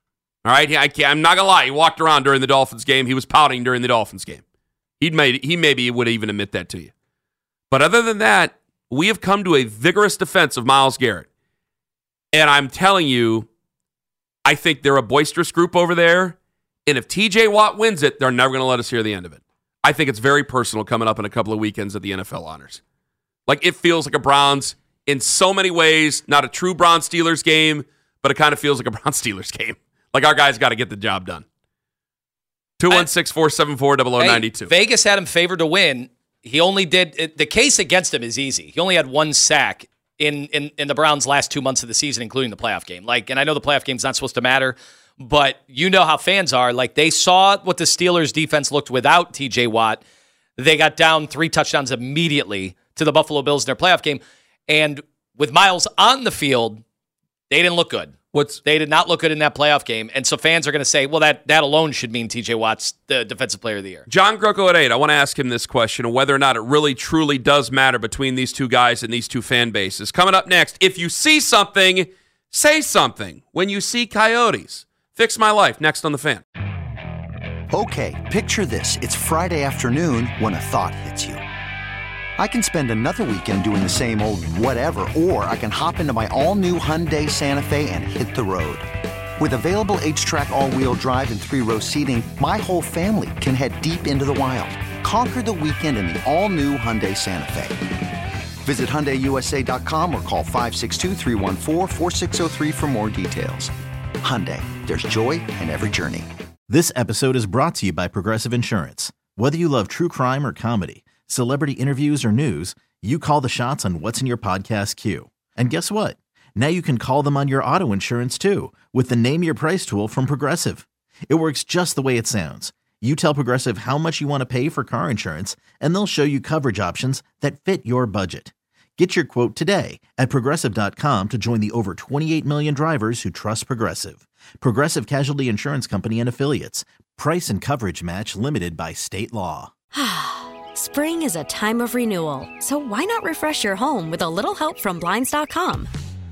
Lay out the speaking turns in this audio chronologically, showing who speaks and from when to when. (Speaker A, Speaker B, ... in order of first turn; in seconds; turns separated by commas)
Speaker A: 0.4-4.4, Speaker A: 5.0-6.9, Speaker A: 7.7-11.3, Speaker A: 12.3-13.5, Speaker A: 14.4-22.8, Speaker A: 23.5-31.4, Speaker A: 32.8-34.7, Speaker B: 34.2-50.0, Speaker B: 50.6-56.8, Speaker B: 57.5-64.0, Speaker A: 58.3-58.6, Speaker A: 64.1-76.4, Speaker C: 77.7-81.4, Speaker C: 82.4-88.8, Speaker C: 89.4-97.8, Speaker C: 98.6-106.3, Speaker D: 106.7-139.7, Speaker E: 139.9-145.9